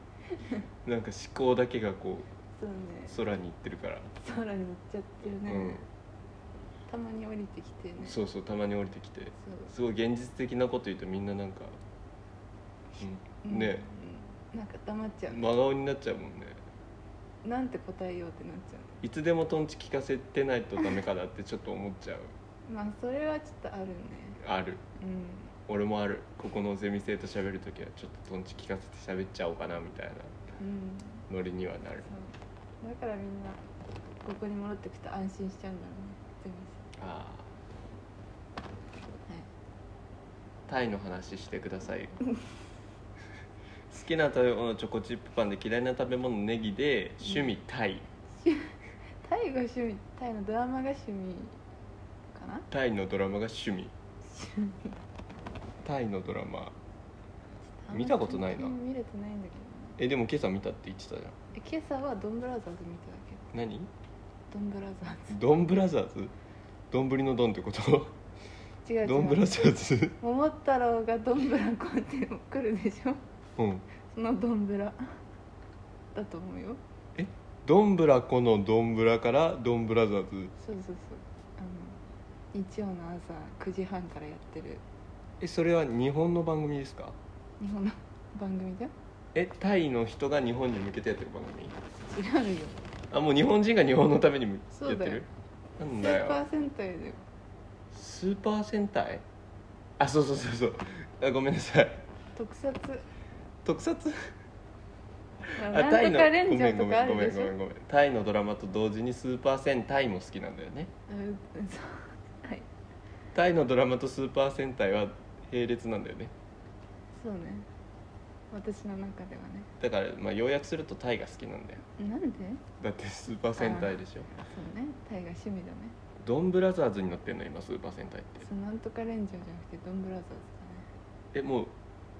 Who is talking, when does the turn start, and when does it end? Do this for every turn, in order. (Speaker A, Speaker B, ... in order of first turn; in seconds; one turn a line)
Speaker A: 0.3-0.7
Speaker B: 0.8-2.3
Speaker A: 2.6-3.2
Speaker B: 3.1-4.1
Speaker A: 4.2-5.8
Speaker B: 5.4-5.8
Speaker A: 6.9-8.2
Speaker B: 8.0-11.8
Speaker A: 9.4-9.7
Speaker A: 13.0-15.5
Speaker B: 13.0-13.8
Speaker B: 15.3-16.6
Speaker A: 17.4-19.0
Speaker B: 19.0-22.3
Speaker A: 22.6-24.4
Speaker B: 24.4-24.8
Speaker A: 24.9-25.5
Speaker B: 25.7-30.3
Speaker A: 30.6-31.3
Speaker B: 31.3-32.1
Speaker A: 32.1-33.6
Speaker A: 34.2-36.8
Speaker B: 37.0-37.5
Speaker B: 40.7-42.2
Speaker B: 43.9-48.0
Speaker A: 48.3-51.6
Speaker A: 52.3-52.7
Speaker B: 52.7-53.9
Speaker A: 54.2-55.0
Speaker B: 55.8-56.8
Speaker A: 57.8-60.0
Speaker B: 57.9-58.7
Speaker B: 60.0-61.4
Speaker A: 61.5-63.5
Speaker B: 63.5-63.9
Speaker A: 64.5-65.4
Speaker B: 65.3-66.3
Speaker B: 66.9-68.2
Speaker A: 68.8-69.5
Speaker B: 69.0-70.2
Speaker A: 70.2-73.2
Speaker B: 73.6-73.8
Speaker A: 74.0-75.2
Speaker A: 76.1-76.8
Speaker B: 77.2-80.5
Speaker A: 80.6-82.0
Speaker A: 82.5-84.8
Speaker B: 85.4-87.2
Speaker A: 87.6-88.9
Speaker B: 89.3-91.8
Speaker A: 92.0-92.8
Speaker B: 93.1-95.3
Speaker A: 94.7-95.2
Speaker B: 95.8-96.4
Speaker A: 96.0-97.2
Speaker B: 97.9-99.2
Speaker B: 100.0-102.0
Speaker A: 102.3-103.0
Speaker B: 103.6-104.3
Speaker B: 105.5-110.9
Speaker A: 105.5-107.5
Speaker A: 111.1-112.7
Speaker B: 113.3-116.3
Speaker A: 117.1-117.7
Speaker A: 118.5-119.7
Speaker B: 119.8-121.8
Speaker A: 122.0-122.6
Speaker B: 122.8-124.3
Speaker A: 123.5-126.0
Speaker B: 126.2-128.5
Speaker A: 128.4-130.9
Speaker B: 131.3-131.7